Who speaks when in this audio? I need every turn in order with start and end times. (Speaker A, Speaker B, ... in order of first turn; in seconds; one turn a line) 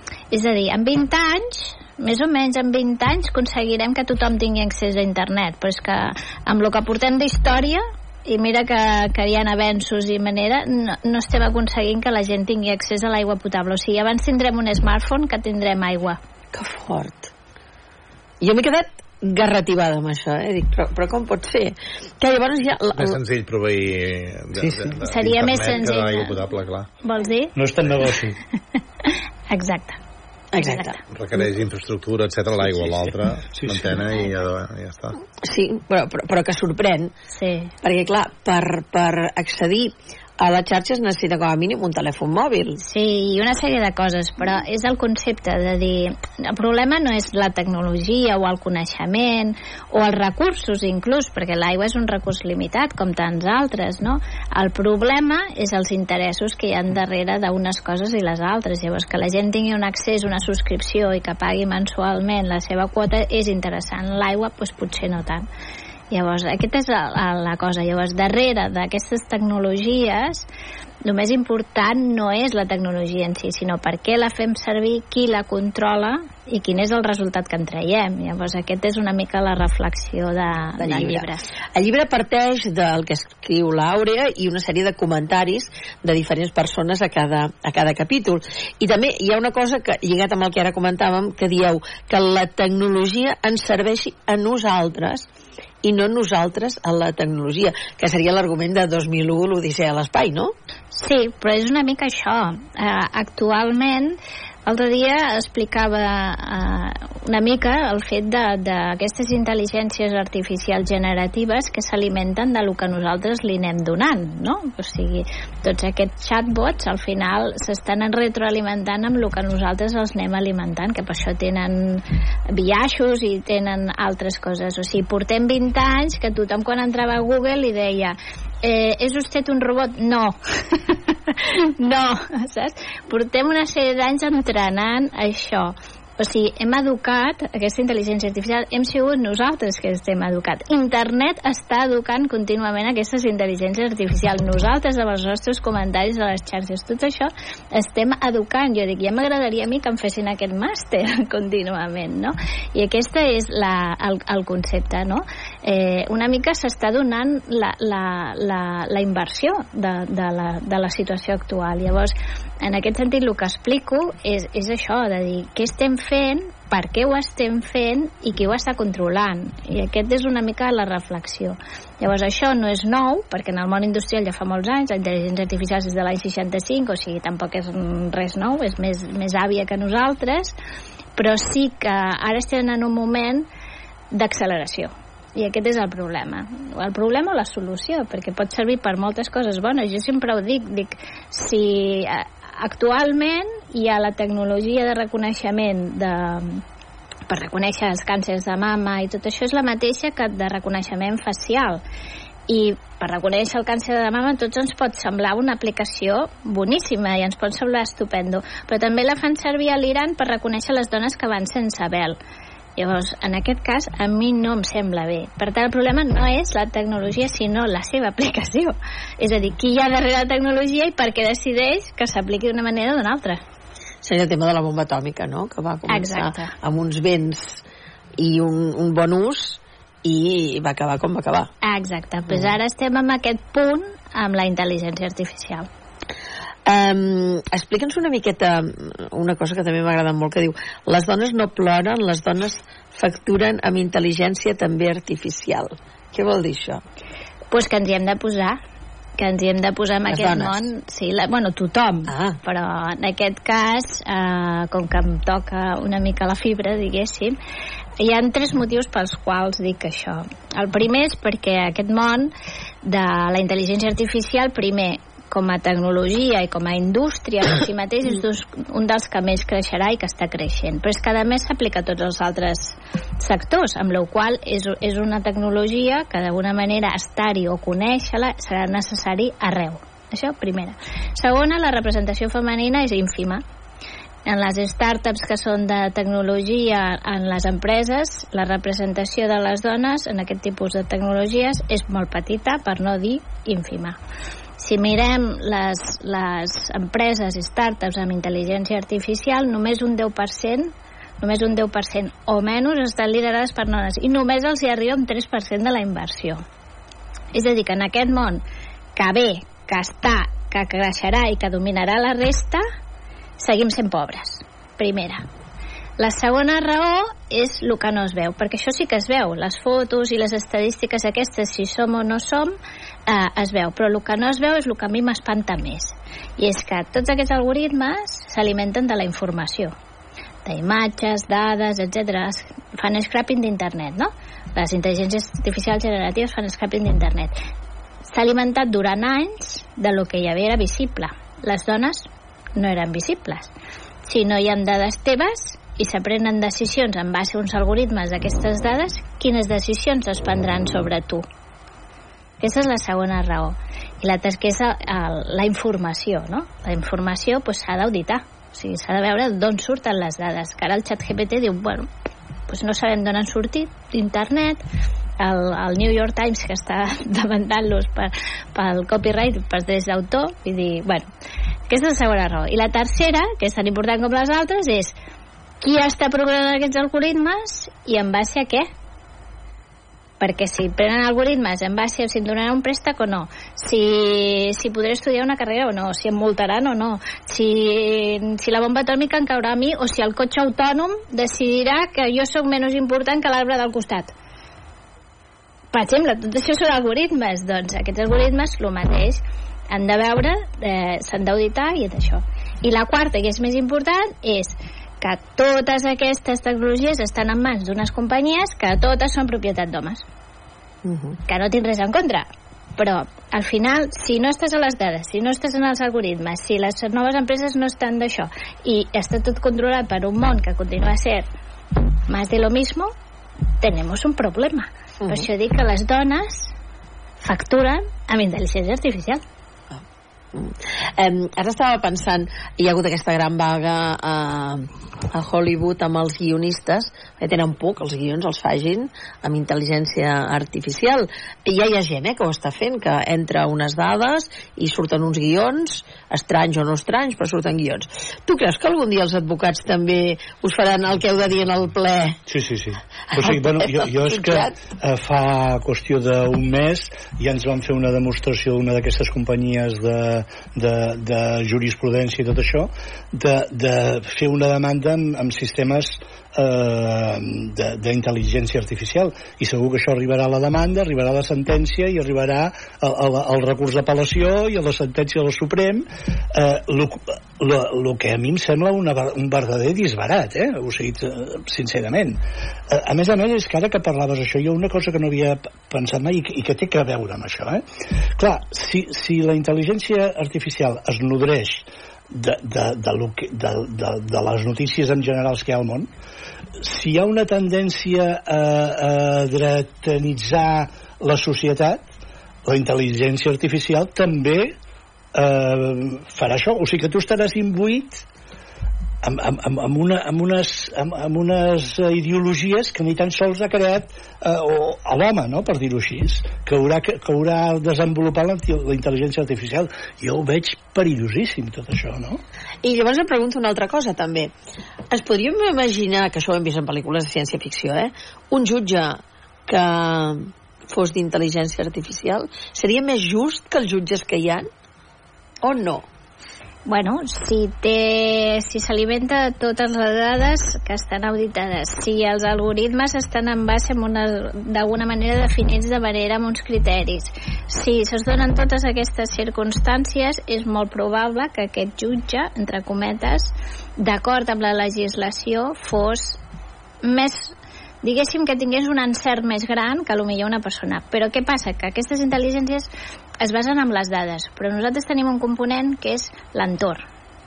Speaker A: 0.3-16.2
Speaker B: 16.5-17.3
Speaker B: 18.4-23.2
Speaker C: 22.9-26.9
Speaker D: 24.6-24.9
Speaker A: 25.0-26.3
Speaker A: 27.0-27.5
Speaker D: 27.5-28.4
Speaker A: 29.1-30.0
Speaker B: 30.5-30.9
Speaker A: 30.6-31.0
Speaker C: 31.1-35.2
Speaker D: 33.5-34.0
Speaker B: 35.4-37.1
Speaker A: 37.3-37.7
Speaker B: 37.8-42.8
Speaker A: 42.8-65.5
Speaker A: 66.1-70.5
Speaker A: 71.0-81.4
Speaker B: 80.8-95.2
Speaker B: 95.8-100.5
Speaker A: 100.9-180.5
Speaker A: 181.2-183.4
Speaker A: 184.1-196.6
Speaker A: 197.3-201.8
Speaker A: 202.5-212.2
Speaker A: 212.8-223.4
Speaker B: 224.0-227.6
Speaker A: 225.9-226.5
Speaker B: 228.2-231.5
Speaker A: 231.6-235.7
Speaker B: 236.7-246.8
Speaker A: 247.5-248.6
Speaker A: 249.2-257.4
Speaker B: 250.1-250.6
Speaker B: 252.1-252.4
Speaker A: 258.0-262.3
Speaker A: 262.8-283.4
Speaker A: 284.3-294.0
Speaker A: 294.6-306.4
Speaker A: 307.3-308.4
Speaker A: 308.9-312.6
Speaker A: 313.4-315.2
Speaker A: 316.0-322.5
Speaker A: 323.1-329.7
Speaker A: 330.4-337.4
Speaker A: 338.1-343.5
Speaker A: 344.1-351.2
Speaker A: 352.4-361.9
Speaker A: 362.5-364.6
Speaker A: 365.2-371.1
Speaker A: 371.7-374.9
Speaker A: 375.6-378.7
Speaker A: 380.2-394.1
Speaker A: 395.7-410.0
Speaker B: 410.8-411.2
Speaker A: 411.3-421.3
Speaker A: 422.1-422.9
Speaker A: 423.6-426.5
Speaker B: 425.0-425.3
Speaker A: 427.2-429.2
Speaker B: 430.3-452.2
Speaker D: 452.3-487.6
Speaker B: 453.1-454.6
Speaker D: 488.1-495.9
Speaker D: 496.6-501.9
Speaker D: 502.5-504.6
Speaker D: 505.1-508.0
Speaker D: 509.0-522.2
Speaker B: 522.6-524.3
Speaker B: 524.9-534.5
Speaker B: 535.4-535.8
Speaker A: 536.6-556.2
Speaker A: 556.8-562.7
Speaker A: 563.2-566.8